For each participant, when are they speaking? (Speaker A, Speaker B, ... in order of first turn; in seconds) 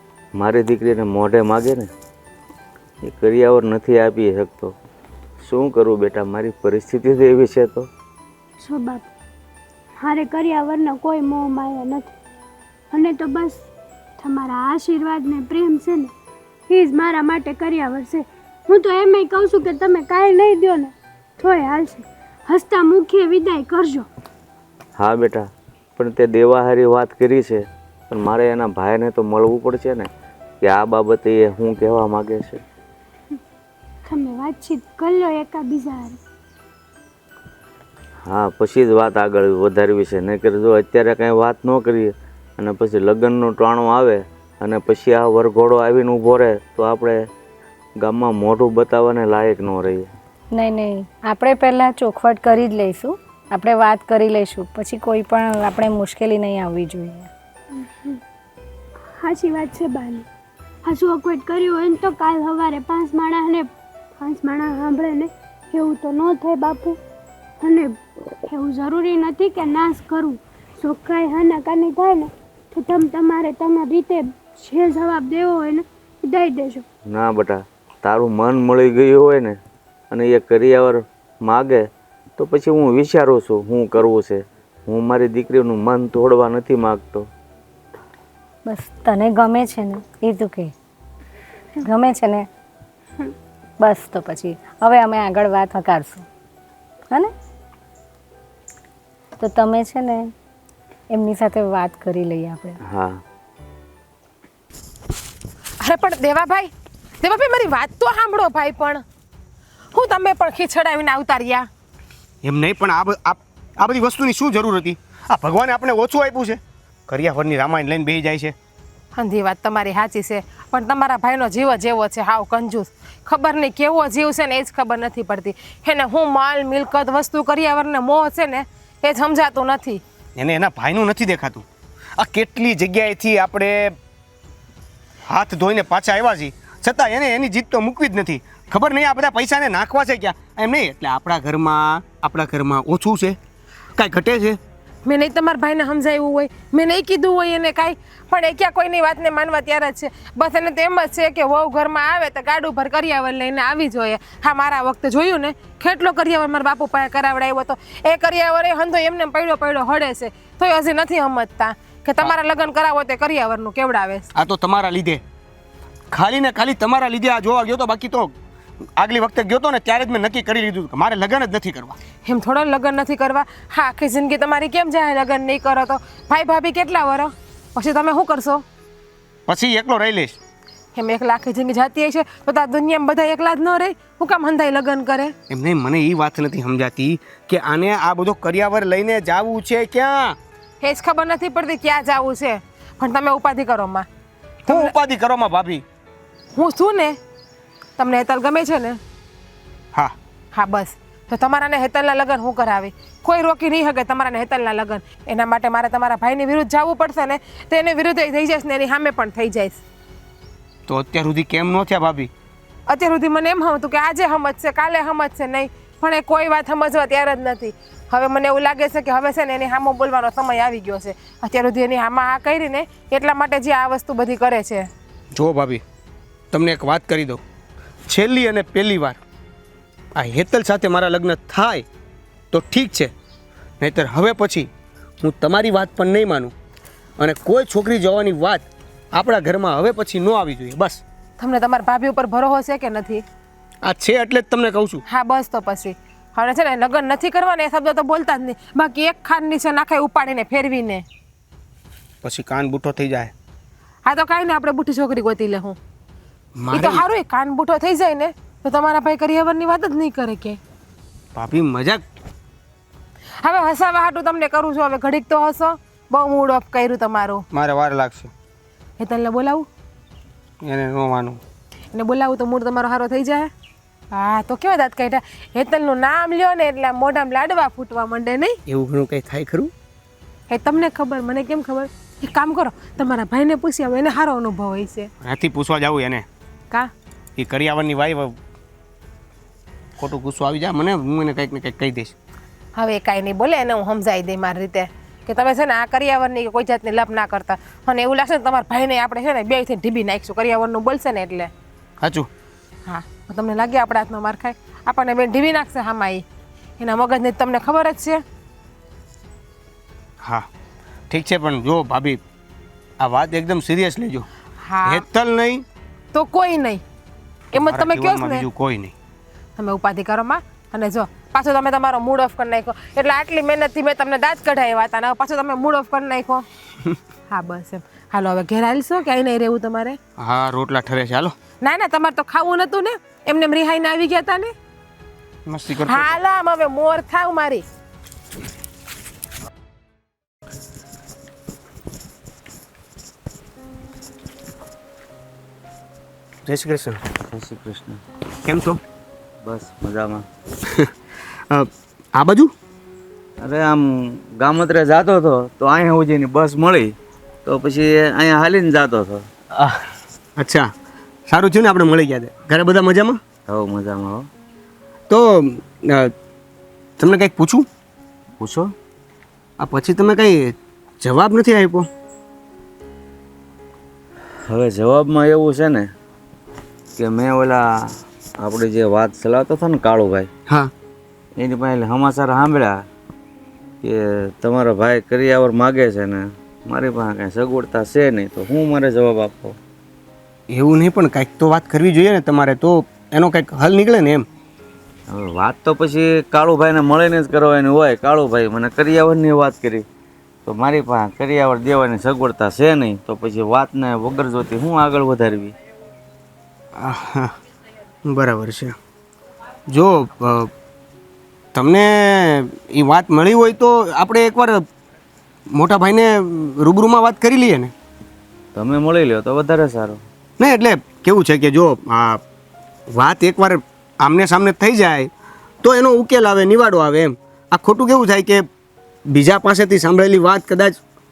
Speaker A: 0.4-1.9, 3.0-4.8, 5.4-7.9, 25.0-30.1, 30.6-32.6, 38.3-47.3, 48.0-50.1, 77.1-79.6, 80.1-87.3, 102.8-103.2, 347.3-348.0, 349.4-350.3, 353.4-359.3, 363.5-364.3, 368.4-368.7, 374.5-375.9, 377.0-380.3, 381.4-382.9, 383.8-389.6, 395.1-399.9, 400.5-405.6, 418.5-420.0
Speaker B: 8.6-9.1, 10.0-12.1, 12.9-13.6, 14.2-16.1, 16.7-24.1, 34.1-36.2, 57.7-58.2, 59.1-60.3, 60.9-67.0, 67.6-76.9
Speaker C: 50.5-57.3, 88.7-90.7, 91.8-92.5, 93.8-96.3, 99.4-100.3, 101.1-102.8
Speaker D: 105.8-109.0, 109.9-111.7, 119.2-130.0, 145.1-164.3, 172.2-178.7, 180.9-185.3, 190.8-194.1, 194.7-194.9, 196.6-197.2, 198.0-199.0, 200.5-209.8, 212.9-224.9, 241.4-243.2, 245.1-251.0, 254.1-255.8, 256.7-260.6, 263.4-267.5, 269.0-269.7, 271.9-273.5, 274.1-278.6, 280.5-285.1, 292.8-301.5, 302.9-306.2, 306.8-308.2, 314.6-315.0, 316.1-316.8, 317.5-318.4, 319.6-326.5, 327.3-330.0, 331.6-334.5, 335.9-337.6
Speaker E: 112.4-118.5, 130.4-131.7, 132.2-134.0, 135.3-143.4, 144.0-144.6, 164.3-165.2, 166.1-168.3, 169.0-172.0, 179.5-180.4, 185.5-190.4, 194.7-195.8, 210.9-212.3, 225.3-225.8, 226.5-227.4, 228.1-229.2, 230.2-231.9, 232.5-233.1, 233.8-234.7, 235.2-236.5, 237.2-241.0, 243.8-245.0, 252.2-253.3, 256.6-257.0, 261.4-262.0, 267.5-268.3, 270.6-271.4, 278.7-279.7, 285.2-286.3, 287.4-288.4, 290.0-292.1, 302.0-302.3, 311.1-312.2, 313.0-314.3, 314.9-315.6, 317.6-318.9, 330.2-331.3, 335.5-336.2, 346.5-347.0, 348.4-348.8, 350.7-350.9, 351.5-352.5, 359.6-359.8, 360.4-360.7, 361.3-363.2, 365.1-366.1, 367.0-367.7, 369.6-371.9, 390.5-394.3, 406.8-407.3, 408.1-408.8, 409.7-410.5, 411.5-414.7, 415.5-417.7, 420.4-422.2, 422.9-425.1, 425.6-428.5, 429.1-430.8